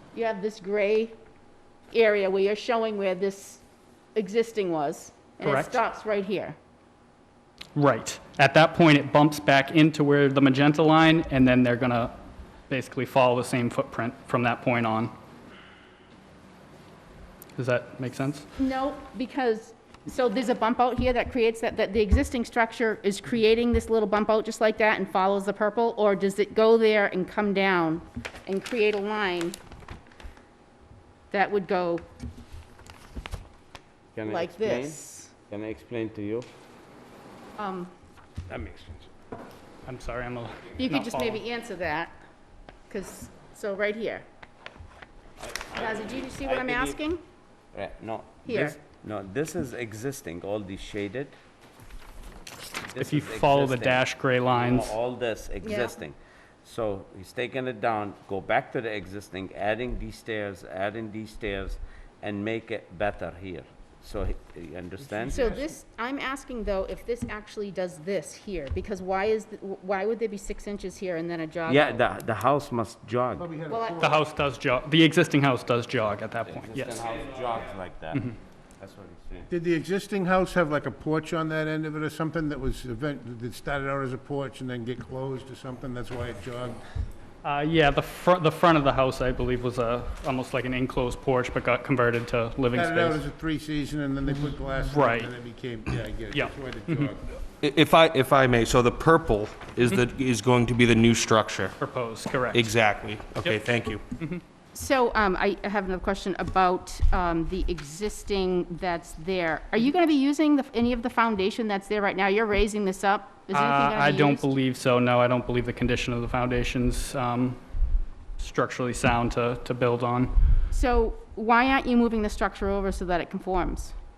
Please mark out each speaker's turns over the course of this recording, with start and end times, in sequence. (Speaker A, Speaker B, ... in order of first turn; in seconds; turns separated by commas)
Speaker A: 0.1-1.2, Speaker A: 1.9-3.6, Speaker A: 4.1-6.5, Speaker B: 5.4-5.8, Speaker B: 7.7-15.1, Speaker B: 17.6-18.4, Speaker A: 18.6-29.6, Speaker A: 31.3-32.0, Speaker C: 34.1-36.5, Speaker A: 34.2-35.3, Speaker A: 37.6-37.9, Speaker C: 38.5-39.0, Speaker B: 39.9-41.4, Speaker A: 40.8-42.1, Speaker A: 42.9-44.2, Speaker C: 45.4-47.0, Speaker A: 45.7-47.2, Speaker C: 47.7-51.3, Speaker A: 48.4-48.8, Speaker C: 52.9-65.4, Speaker B: 53.0-54.9, Speaker A: 55.6-56.0, Speaker D: 65.0-65.8, Speaker A: 65.3-72.0, Speaker C: 71.7-73.5, Speaker D: 73.4-74.2, Speaker A: 73.7-74.1, Speaker B: 74.0-77.0, Speaker C: 76.5-78.2, Speaker C: 78.8-79.5, Speaker D: 79.5-86.8, Speaker B: 87.4-93.2, Speaker D: 92.7-97.4, Speaker B: 94.7-95.3, Speaker B: 96.3-97.1, Speaker E: 97.6-101.8, Speaker B: 101.8-102.7, Speaker E: 102.5-104.0, Speaker B: 103.4-104.4, Speaker A: 104.7-114.5, Speaker B: 113.5-117.6, Speaker B: 118.4-120.3, Speaker A: 120.7-123.9